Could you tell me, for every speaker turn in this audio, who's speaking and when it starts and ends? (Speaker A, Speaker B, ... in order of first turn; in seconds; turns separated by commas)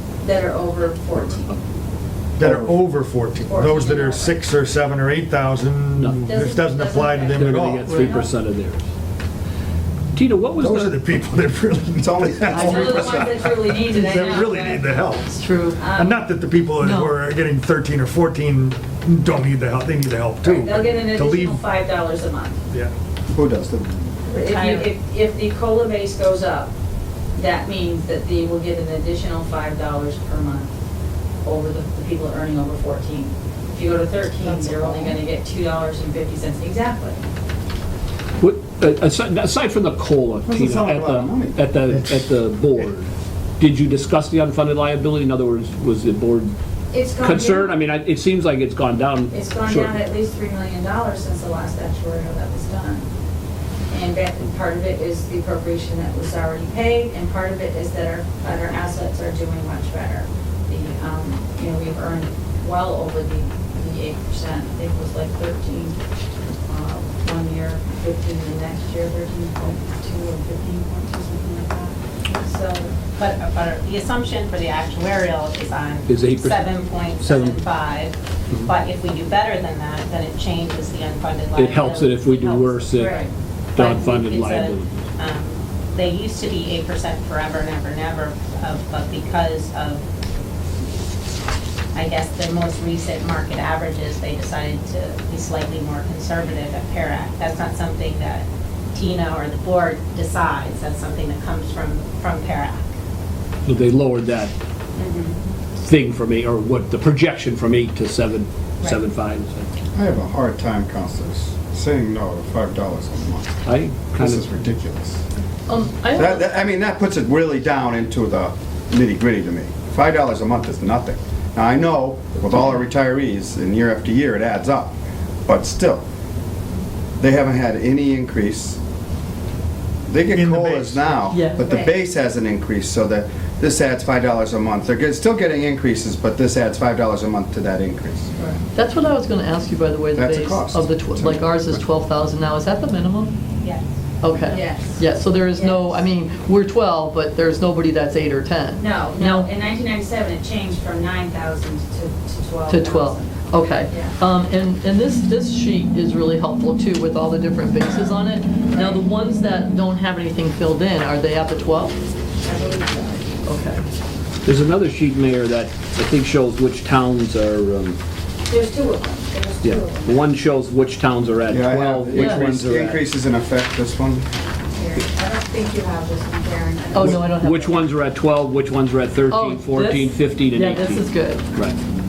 Speaker A: 0.2-1.6, Speaker B: 2.4-7.9, Speaker C: 2.4-2.7, Speaker A: 3.4-4.4, Speaker D: 6.0-6.3, Speaker A: 6.2-8.3, Speaker D: 7.3-8.9, Speaker E: 7.9-8.2, Speaker D: 10.1-10.9, Speaker B: 10.6-15.3, Speaker C: 12.0-13.1, Speaker A: 12.5-14.9, Speaker E: 12.5-13.2, Speaker E: 15.3-15.8, Speaker A: 15.8-16.2, Speaker B: 15.9-21.6, Speaker E: 16.8-17.1, Speaker A: 20.4-22.6, Speaker C: 23.3-24.1, Speaker A: 24.3-26.7, Speaker F: 24.3-24.9, Speaker A: 27.4-30.7, Speaker A: 31.4-37.2, Speaker C: 34.4-35.2, Speaker D: 38.4-46.6, Speaker C: 40.5-41.6, Speaker B: 41.9-42.9, Speaker A: 46.9-47.8, Speaker D: 47.2-50.0, Speaker A: 49.3-53.1, Speaker A: 53.9-66.0, Speaker A: 66.7-73.0, Speaker F: 73.0-83.1, Speaker D: 76.1-77.7, Speaker D: 81.6-85.0, Speaker A: 83.0-83.3, Speaker F: 83.8-90.0, Speaker F: 91.9-102.9, Speaker D: 103.7-104.5, Speaker A: 105.0-105.4, Speaker D: 105.8-109.7, Speaker C: 109.9-113.6, Speaker D: 113.7-114.5, Speaker C: 114.2-115.2, Speaker E: 115.7-116.4, Speaker C: 116.1-126.0, Speaker C: 127.2-128.8, Speaker C: 130.1-138.3, Speaker B: 130.3-131.3, Speaker E: 131.3-131.6, Speaker A: 131.5-131.9, Speaker A: 138.4-138.6, Speaker E: 138.8-143.3, Speaker C: 140.1-141.8, Speaker E: 144.2-149.5, Speaker F: 144.4-144.7, Speaker A: 144.5-146.1, Speaker A: 148.8-154.2, Speaker E: 152.7-162.0, Speaker A: 158.7-159.0, Speaker A: 162.4-163.2, Speaker E: 163.4-163.8, Speaker D: 164.4-168.0, Speaker A: 168.5-170.3, Speaker D: 169.6-173.0, Speaker C: 171.5-174.3, Speaker E: 172.2-172.4, Speaker A: 174.6-177.2, Speaker E: 176.9-177.8, Speaker D: 177.0-181.8, Speaker E: 179.3-181.4